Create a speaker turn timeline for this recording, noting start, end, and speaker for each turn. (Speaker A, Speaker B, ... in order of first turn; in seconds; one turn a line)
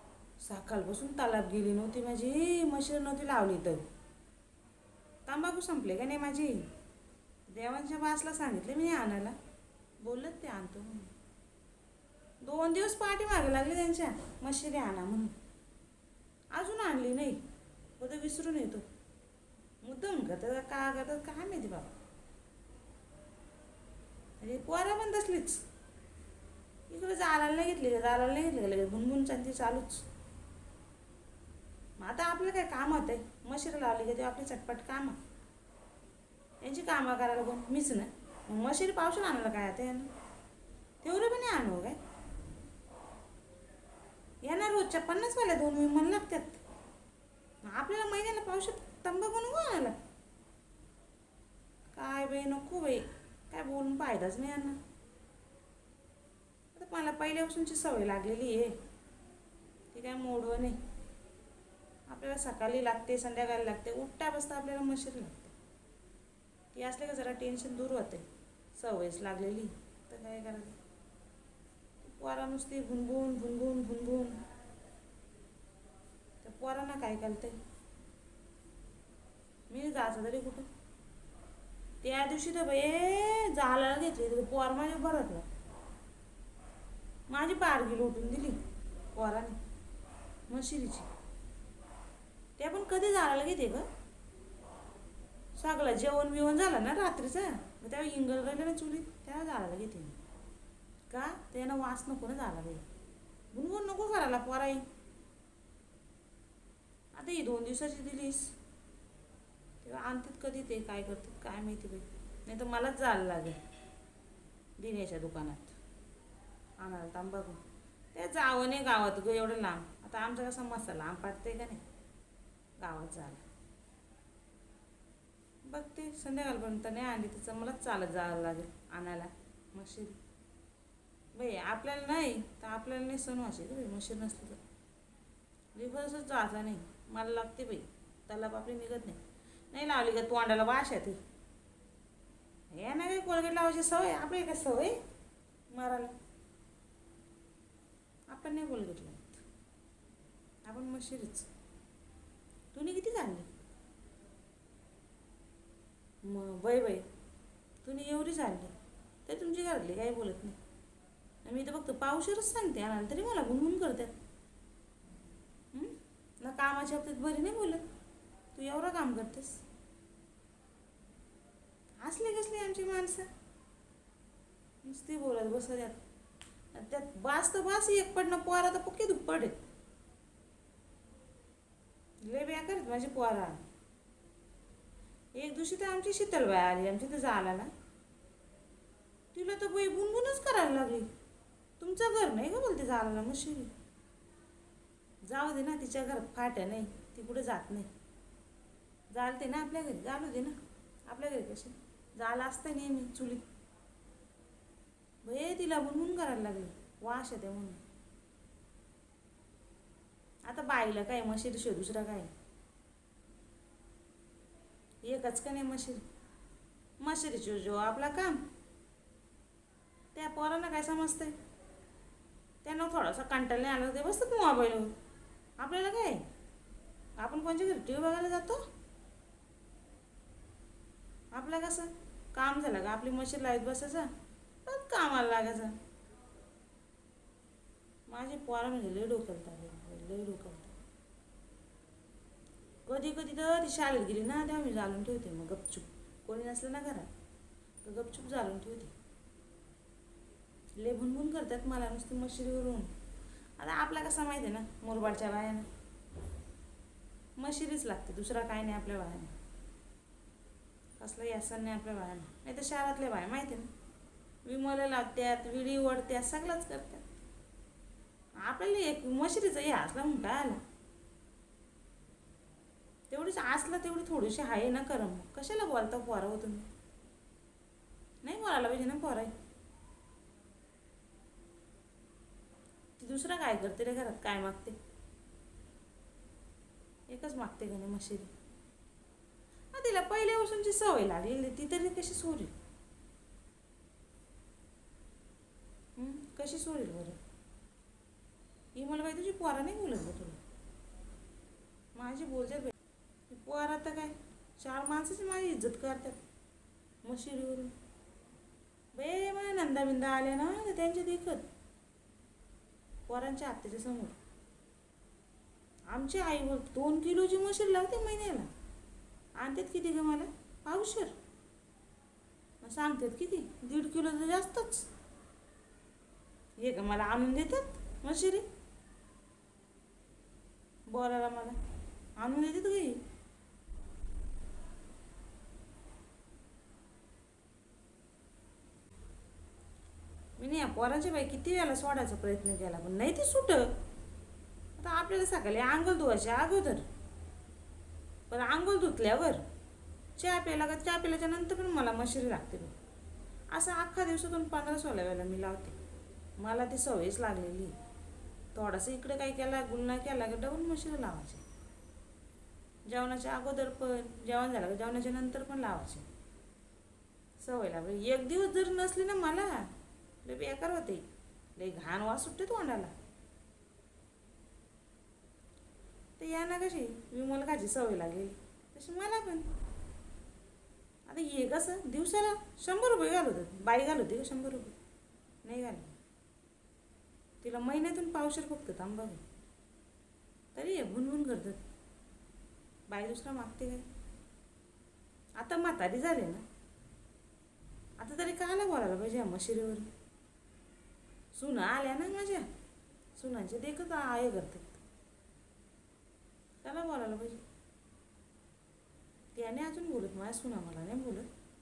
Speaker A: 0.4-3.9
Speaker A: 5.3-6.7
Speaker A: 7.5-9.4
Speaker A: 10.0-11.1
Speaker A: 12.4-15.3
Speaker A: 16.5-17.4
Speaker A: 18.0-18.9
Speaker A: 19.8-21.9
Speaker A: 24.4-25.6
Speaker A: 26.9-30.1
Speaker A: 32.0-35.2
Speaker A: 36.6-40.1
Speaker A: 41.0-42.0
Speaker A: 44.5-46.6
Speaker A: 47.6-50.0
Speaker A: 51.9-54.8
Speaker A: 56.8-58.8
Speaker A: 59.9-60.8
Speaker A: 62.1-65.5
Speaker A: 66.7-70.8
Speaker A: 72.0-74.4
Speaker A: 76.4-77.6
Speaker A: 79.7-80.7
Speaker A: 82.0-85.5
Speaker A: 87.3-88.6
Speaker A: 89.1-89.6
Speaker A: 90.5-91.1
Speaker A: 92.6-93.9
Speaker A: 95.6-100.2
Speaker A: 101.1-102.8
Speaker A: 103.5-104.8
Speaker A: 107.2-108.5
Speaker A: 109.8-113.6
Speaker A: 114.8-115.8
Speaker A: 116.8-117.6
Speaker A: 118.1-121.8
Speaker A: 122.8-123.4
Speaker A: 125.6-130.2
Speaker A: 131.3-134.6
Speaker A: 135.8-139.2
Speaker A: 139.7-141.2
Speaker A: 142.7-145.0
Speaker A: 145.7-146.1
Speaker A: 148.3-149.4
Speaker A: 150.7-151.5
Speaker A: 152.7-153.5
Speaker A: 156.2-157.1
Speaker A: 157.8-158.7
Speaker A: 159.2-160.6
Speaker A: 161.4-164.1
Speaker A: 165.7-167.8
Speaker A: 168.5-169.6
Speaker A: 172.0-173.3
Speaker A: 174.8-176.0
Speaker A: 176.7-179.6
Speaker A: 182.2-183.6
Speaker A: 185.3-187.7
Speaker A: 189.3-191.1
Speaker A: 191.8-193.7
Speaker A: 195.3-197.9
Speaker A: 199.1-200.6
Speaker A: 201.1-203.5
Speaker A: 205.2-207.8
Speaker A: 210.5-212.3
Speaker A: 215.0-216.0
Speaker A: 217.0-218.4
Speaker A: 220.2-221.3
Speaker A: 222.6-224.9
Speaker A: 225.6-226.2
Speaker A: 227.2-228.7
Speaker A: 231.3-234.1
Speaker A: 234.7-235.8
Speaker A: 238.1-240.7
Speaker A: 242.9-247.1
Speaker A: 247.8-248.9
Speaker A: 250.8-252.9
Speaker A: 253.6-255.7
Speaker A: 257.4-259.3
Speaker A: 261.0-263.7
Speaker A: 264.4-267.2
Speaker A: 268.4-270.6
Speaker A: 273.1-276.7
Speaker A: 278.2-279.3
Speaker A: 283.0-284.8
Speaker A: 287.1-288.3
Speaker A: 289.7-292.5
Speaker A: 296.0-297.2
Speaker A: 298.8-300.4
Speaker A: 301.9-302.7
Speaker A: 303.3-306.2
Speaker A: 307.0-307.7
Speaker A: 308.9-311.4
Speaker A: 313.1-314.2
Speaker A: 315.9-318.5
Speaker A: 319.4-321.1
Speaker A: 322.6-324.9
Speaker A: 326.6-328.4
Speaker A: 330.9-331.6
Speaker A: 332.2-333.0
Speaker A: 340.4-343.7
Speaker A: 344.8-346.9
Speaker A: 348.3-349.4
Speaker A: 350.2-352.7
Speaker A: 353.5-355.8
Speaker A: 356.4-357.8
Speaker A: 358.6-361.4
Speaker A: 362.9-366.1
Speaker A: 367.4-369.7
Speaker A: 370.2-371.1
Speaker A: 371.6-372.9
Speaker A: 376.2-379.5
Speaker A: 381.1-384.7
Speaker A: 385.4-385.9
Speaker A: 387.4-389.2
Speaker A: 390.6-391.6
Speaker A: 392.9-393.8
Speaker A: 395.4-396.4
Speaker A: 398.0-399.9
Speaker A: 401.3-402.5
Speaker A: 403.2-404.8
Speaker A: 406.6-407.4
Speaker A: 409.4-411.3